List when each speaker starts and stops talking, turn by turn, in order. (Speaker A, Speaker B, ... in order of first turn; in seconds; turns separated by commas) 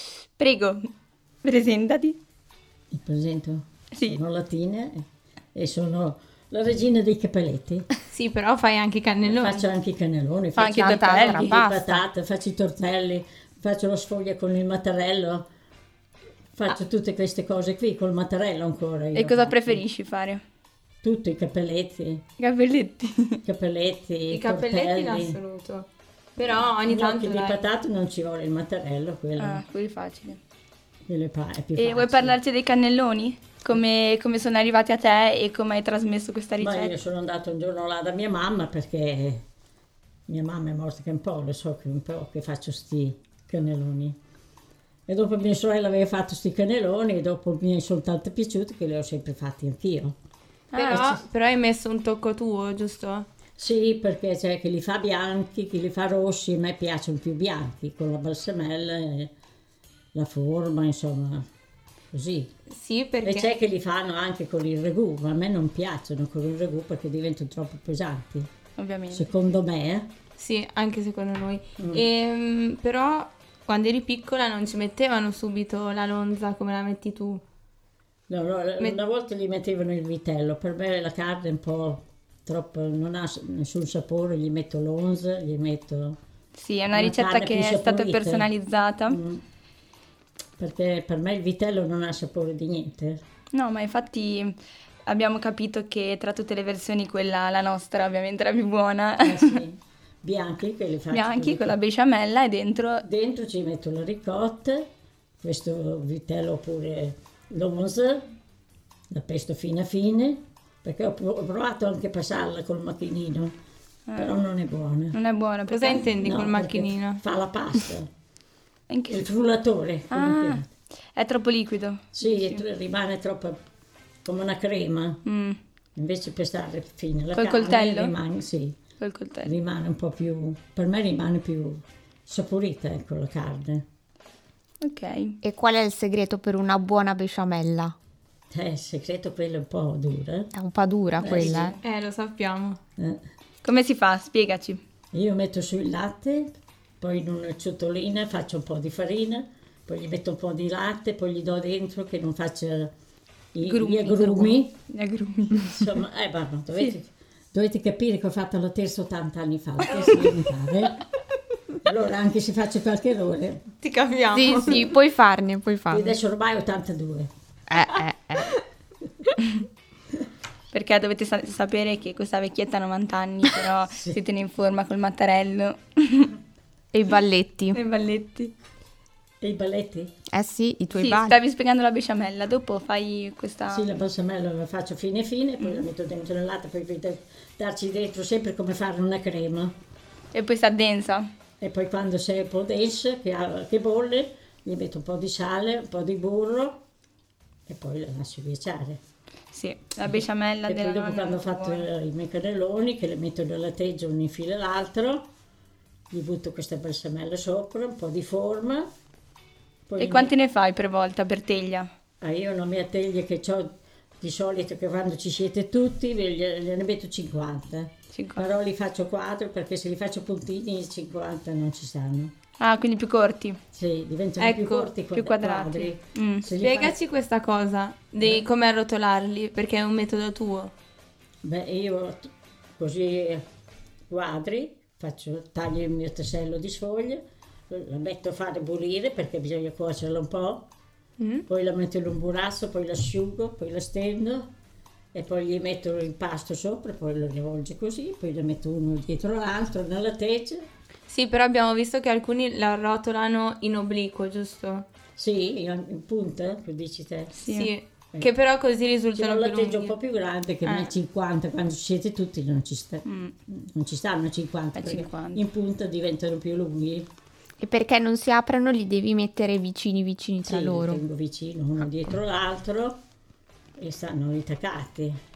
Speaker A: 0.2-0.9, Speaker A: 1.4-2.2, Speaker B: 2.9-7.9, Speaker A: 3.9-4.2, Speaker C: 8.1-9.6, Speaker B: 9.2-15.4, Speaker A: 10.6-11.6, Speaker D: 10.6-12.0, Speaker B: 16.5-19.8, Speaker A: 19.1-20.4, Speaker B: 21.0-22.2, Speaker A: 22.4-23.4, Speaker B: 23.4-25.4, Speaker C: 24.3-27.6, Speaker B: 26.8-29.6, Speaker A: 29.4-30.4, Speaker B: 31.1-32.4, Speaker A: 31.8-36.9, Speaker B: 36.6-39.4, Speaker B: 40.3-44.2, Speaker B: 45.1-50.1, Speaker A: 50.7-51.0, Speaker B: 50.7-51.2, Speaker C: 50.8-53.3, Speaker B: 53.6-59.3, Speaker B: 60.1-61.4, Speaker B: 62.1-62.5, Speaker C: 62.7-63.5, Speaker B: 63.2-68.5, Speaker A: 68.8-69.3, Speaker B: 69.1-70.1, Speaker C: 70.4-77.4, Speaker B: 71.8-72.0, Speaker B: 78.3-86.2, Speaker A: 86.5-89.2, Speaker B: 86.9-88.5, Speaker B: 89.1-89.4, Speaker B: 90.6-93.2, Speaker A: 93.5-99.6, Speaker B: 99.2-101.8, Speaker A: 101.1-103.0, Speaker B: 103.0-104.9, Speaker B: 105.4-108.3, Speaker B: 109.1-113.6, Speaker A: 114.1-114.4, Speaker B: 114.1-115.2, Speaker A: 115.1-116.1, Speaker C: 115.7-117.2, Speaker B: 116.2-118.1, Speaker A: 118.9-119.2, Speaker B: 119.1-120.7, Speaker A: 120.1-122.6, Speaker B: 122.1-123.6, Speaker B: 124.2-125.2, Speaker A: 125.2-125.6, Speaker B: 126.0-128.8, Speaker A: 127.3-128.1, Speaker A: 129.0-129.5, Speaker B: 129.4-133.8, Speaker A: 134.8-135.4, Speaker D: 135.4-137.9, Speaker B: 138.5-140.5, Speaker D: 140.5-141.8, Speaker B: 141.2-141.8, Speaker A: 141.2-141.8, Speaker C: 141.8-142.8, Speaker A: 143.6-144.8, Speaker B: 145.1-152.9, Speaker B: 153.5-154.8, Speaker A: 153.7-155.9, Speaker B: 155.6-161.0, Speaker B: 161.8-163.7, Speaker C: 163.8-164.9, Speaker D: 164.3-166.1, Speaker B: 165.9-167.3, Speaker D: 167.7-168.6, Speaker A: 170.7-176.3, Speaker B: 173.9-174.2, Speaker D: 176.9-177.8, Speaker A: 177.7-178.5, Speaker B: 179.4-180.1, Speaker D: 180.3-181.3, Speaker A: 180.9-183.9, Speaker B: 183.7-189.8, Speaker A: 190.3-191.3, Speaker B: 191.6-196.8, Speaker B: 197.7-199.0, Speaker A: 199.5-201.9, Speaker B: 200.1-205.3, Speaker B: 206.1-208.9, Speaker B: 209.9-210.3, Speaker A: 210.0-211.9, Speaker B: 212.2-222.3, Speaker A: 218.1-218.5, Speaker A: 222.6-223.6, Speaker B: 223.7-226.9, Speaker C: 224.4-224.9, Speaker A: 225.1-226.5, Speaker C: 226.6-230.7, Speaker B: 231.4-233.4, Speaker B: 234.1-240.7, Speaker C: 241.2-241.4, Speaker B: 241.5-244.5, Speaker B: 245.1-250.6, Speaker C: 251.1-254.9, Speaker B: 255.2-257.4, Speaker A: 257.3-257.7, Speaker C: 257.5-259.9, Speaker B: 259.1-267.1, Speaker C: 260.6-260.9, Speaker A: 263.1-263.3, Speaker A: 264.8-265.4, Speaker D: 267.6-271.0, Speaker B: 270.5-273.0, Speaker B: 273.8-275.2